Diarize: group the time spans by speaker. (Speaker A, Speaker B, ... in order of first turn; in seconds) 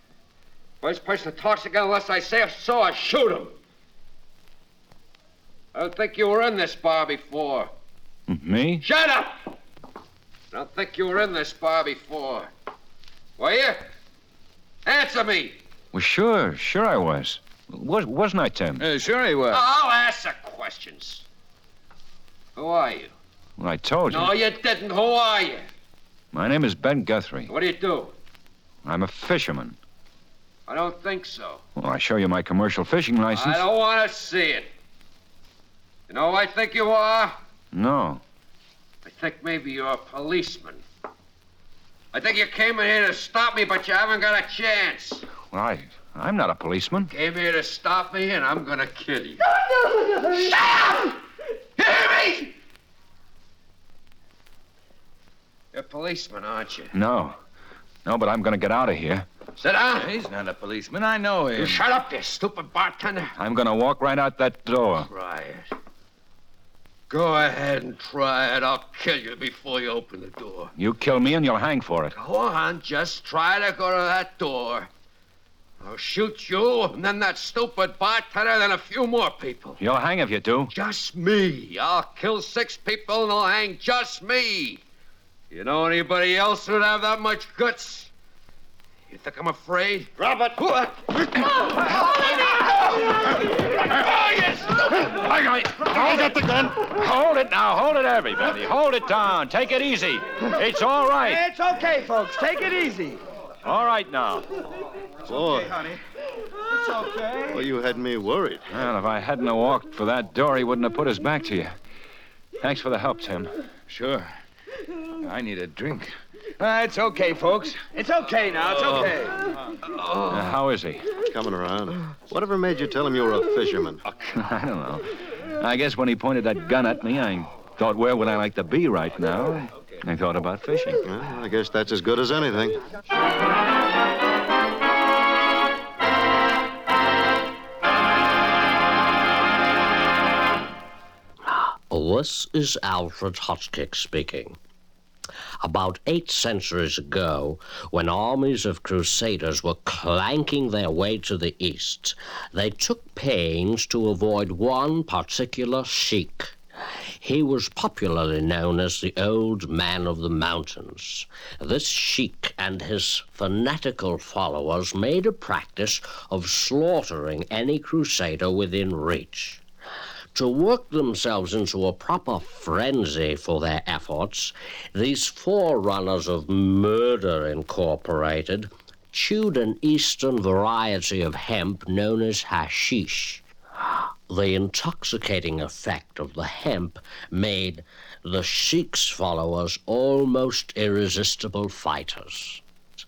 Speaker A: 0.8-3.6, 5.7-7.7, 8.8-9.4, 10.5-12.5, 13.4-13.9, 14.9-15.6, 19.5-21.2, 22.6-23.1, 24.1-25.7, 27.5-28.1, 30.7-31.6, 33.3-34.7, 36.1-37.4, 39.0-40.8, 42.1-45.3, 47.1-49.4, 50.2-51.1, 51.8-52.5, 55.7-56.9, 59.6-60.2, 61.5-63.3, 65.1-65.7, 67.1-70.7, 72.1-74.9, 75.8-79.8, 80.7-84.8, 85.5-88.1, 89.1-91.0
Speaker B: 8.3-8.8, 15.9-18.9, 23.6-24.4, 26.3-27.5, 28.9-29.8, 31.8-33.6, 37.7-38.2, 45.4-47.1, 56.9-57.4, 58.1-59.3, 63.4-65.1, 70.8-72.1, 79.8-80.7, 95.0-101.4, 103.6-104.5, 108.7-111.8, 112.6-113.5, 120.3-121.1, 124.3-131.0
Speaker C: 18.8-19.6, 60.0-61.8, 113.9-114.3, 115.2-116.1, 118.8-119.1, 119.9-120.5
Speaker D: 101.2-103.2, 106.7-107.6, 116.6-119.4
Speaker E: 105.3-105.9, 107.5-108.7, 121.2-124.0, 131.0-132.8
Speaker F: 141.5-144.6, 145.6-156.6, 157.2-169.6, 170.3-183.4, 184.3-192.6